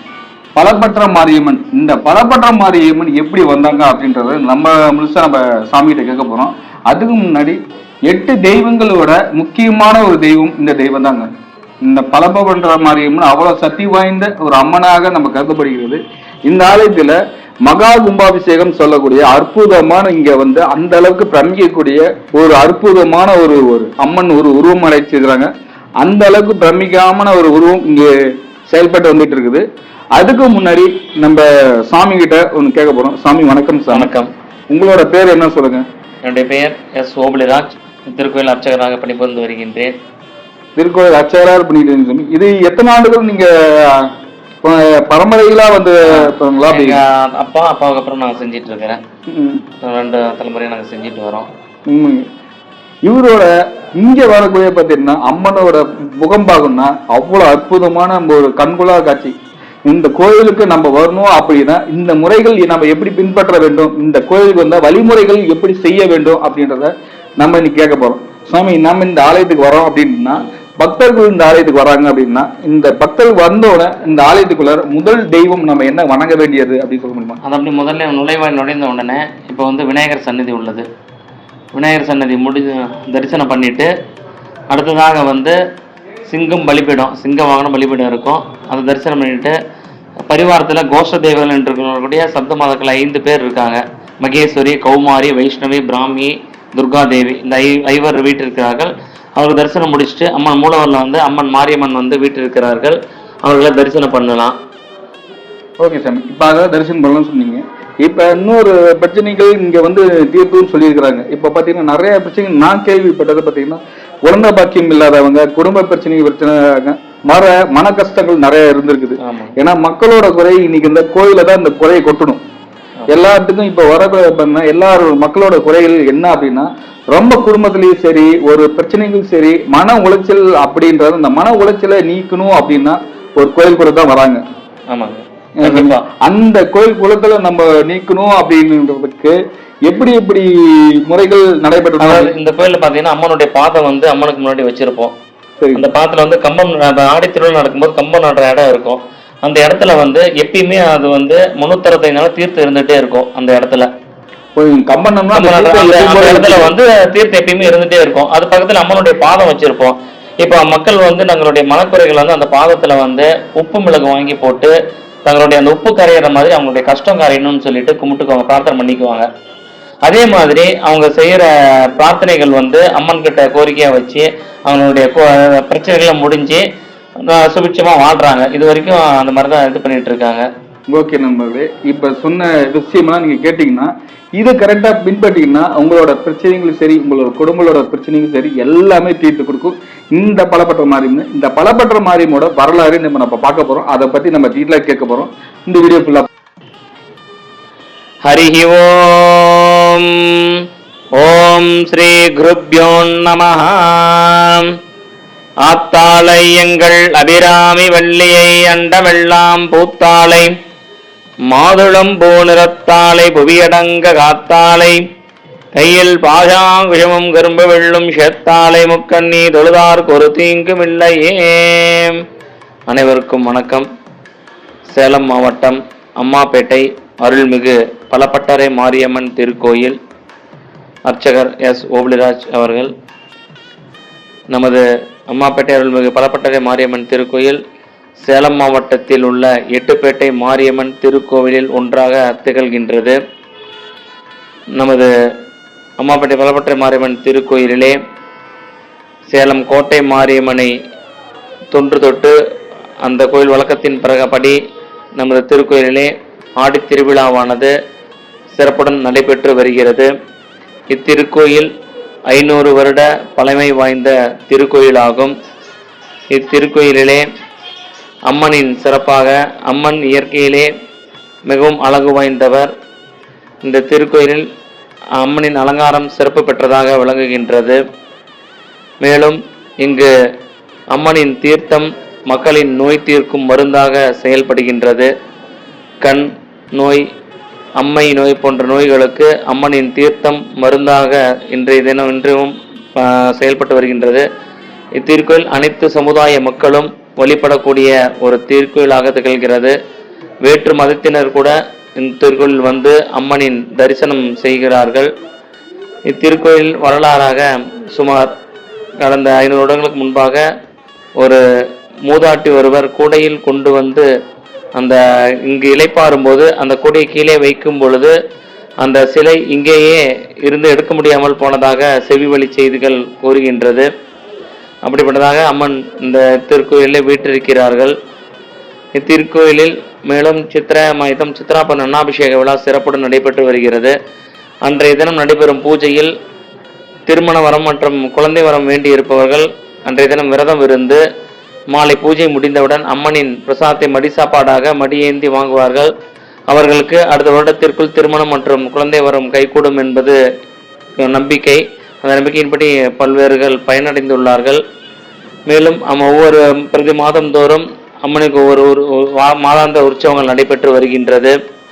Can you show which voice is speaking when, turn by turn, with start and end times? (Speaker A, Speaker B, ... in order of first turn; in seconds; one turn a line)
Speaker A: 0.6-11.3
Speaker A: 11.8-28.1
Speaker A: 28.7-29.6
Speaker A: 30.1-34.1
Speaker B: 33.9-34.3
Speaker A: 34.7-35.8
Speaker B: 36.2-39.9
Speaker A: 40.8-44.1
Speaker A: 44.6-47.0
Speaker B: 46.1-49.0
Speaker A: 49.3-49.6
Speaker B: 49.8-51.5
Speaker A: 51.9-52.2
Speaker A: 53.0-59.3
Speaker A: 59.9-77.4
Speaker B: 77.4-80.9
Speaker B: 81.7-83.9
Speaker B: 84.7-85.6
Speaker B: 86.3-89.5
Speaker B: 90.3-104.5
Speaker A: 105.8-122.4
Speaker B: 119.2-119.5
Speaker A: 123.1-134.4
Speaker B: 134.9-136.0
Speaker A: 135.6-142.3
Speaker B: 142.0-145.1
Speaker B: 145.7-153.9
Speaker A: 154.6-156.7
Speaker B: 155.3-164.7
Speaker B: 165.2-169.3
Speaker B: 170.1-176.6
Speaker B: 177.2-180.5
Speaker A: 180.9-196.3
Speaker B: 198.2-200.6
Speaker B: 201.2-204.7
Speaker B: 205.6-210.5
Speaker B: 211.5-215.0
Speaker B: 215.7-222.2
Speaker B: 222.9-223.9
Speaker B: 224.9-229.9
Speaker B: 231.1-232.9
Speaker B: 234.5-237.6
Speaker B: 238.2-243.2
Speaker B: 244.8-245.1
Speaker B: 246.0-247.9
Speaker B: 249.3-250.7
Speaker B: 251.7-252.3
Speaker B: 253.0-254.6
Speaker B: 255.2-257.7
Speaker B: 258.5-260.1
Speaker B: 260.9-261.7
Speaker B: 262.3-265.3
Speaker B: 266.3-267.2
Speaker B: 268.3-270.7
Speaker B: 271.5-272.7
Speaker B: 273.6-274.4
Speaker B: 275.2-277.8
Speaker B: 279.0-280.1
Speaker B: 280.9-285.1
Speaker B: 286.0-287.0
Speaker B: 287.8-294.2
Speaker B: 295.0-299.7
Speaker B: 300.4-305.1
Speaker B: 306.1-308.3
Speaker B: 309.0-310.4
Speaker B: 312.0-314.1
Speaker B: 314.8-318.1
Speaker B: 318.8-323.9
Speaker B: 324.8-327.9
Speaker B: 328.9-333.9
Speaker B: 334.6-336.1
Speaker B: 337.1-341.0
Speaker B: 341.7-345.9
Speaker B: 346.5-350.2
Speaker B: 351.0-354.6
Speaker B: 355.5-361.3